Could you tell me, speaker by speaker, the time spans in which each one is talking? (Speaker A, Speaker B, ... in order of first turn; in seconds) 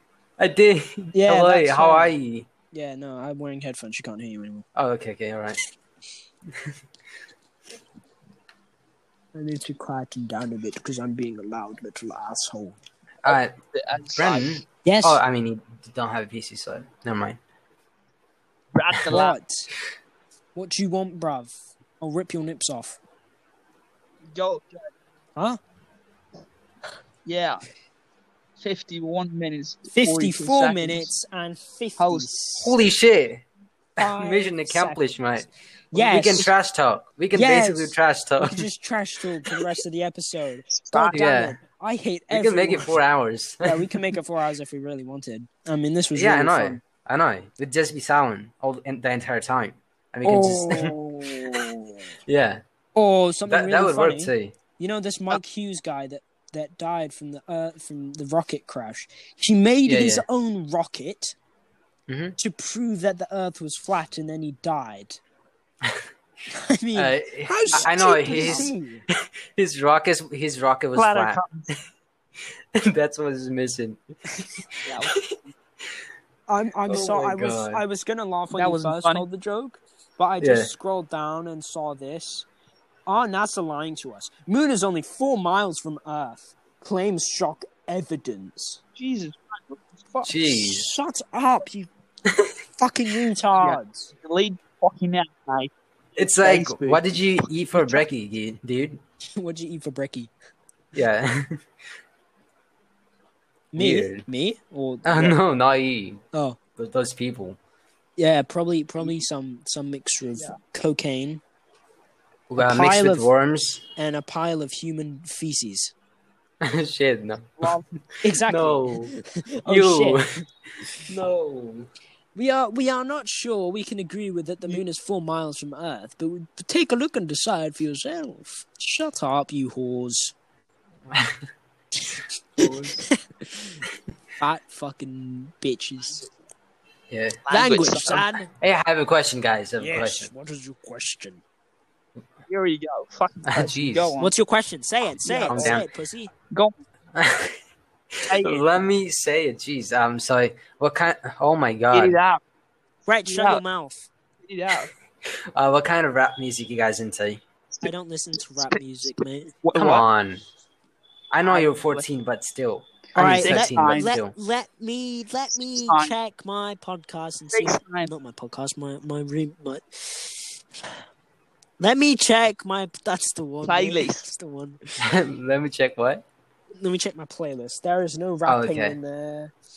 Speaker A: 0.4-2.5, 4.7-5.6, 13.2-13.5, 14.2-17.4, 19.0-19.2, 32.6-33.4, 34.0-38.6, 41.1-41.6, 42.3-43.9, 46.1-51.6, 52.3-52.6, 53.5-54.5, 59.9-60.2, 62.1-62.4, 66.9-68.7, 69.5-71.8, 72.8-74.0, 74.6-75.3, 76.9-77.8, 80.4-80.7, 90.2-90.9, 96.2-99.0, 100.9-101.6, 103.8-104.2, 105.0-106.2, 106.8-107.6, 112.5-113.8, 116.6-119.1, 119.7-120.3, 120.9-121.9, 131.1-131.4, 132.6-133.0, 137.1-137.4, 138.0-140.3, 143.5-144.1, 145.5-145.8, 147.1-147.6, 148.1-152.2, 155.5-157.4, 159.7-160.4, 161.3-164.3, 175.0-176.2, 178.4-179.0
Speaker B: 1.1-2.1, 2.7-4.6, 9.3-12.8, 14.8-15.2, 19.1-19.7, 20.5-23.0, 29.9-32.8, 34.0-35.0, 35.9-36.5, 37.3-42.9, 43.6-46.8, 50.2-52.1, 52.9-61.4, 62.4-65.2, 66.5-69.0, 76.5-82.5, 83.1-88.8, 90.4-91.9, 92.8-94.1, 99.4-100.3, 103.7-105.4, 106.3-106.6, 108.2-111.4, 112.6-113.3, 114.0-115.9, 118.2-120.2, 122.3-130.3, 132.6-133.8, 134.4-136.2, 137.5-138.5, 139.8-141.4, 144.2-146.3, 153.1-154.1, 157.8-159.5, 163.1-170.5, 171.8-174.8, 176.8-179.5
Speaker C: 13.2-14.6, 18.7-19.4, 24.3-24.9, 27.2-27.6, 28.6-31.1, 32.0-32.3, 40.7-41.2, 67.7-68.7, 70.9-71.7, 74.8-75.5, 78.5-79.2, 89.0-90.4, 93.6-95.7, 96.4-98.0, 117.6-117.8, 137.4-138.2, 142.5-144.3, 145.2-145.8, 146.5-146.8, 148.3-148.7, 151.9-152.4, 153.3-153.6, 154.4-154.9, 159.6-160.1, 161.4-162.1, 163.2-164.1, 165.6-166.1, 167.5-168.1, 173.6-174.3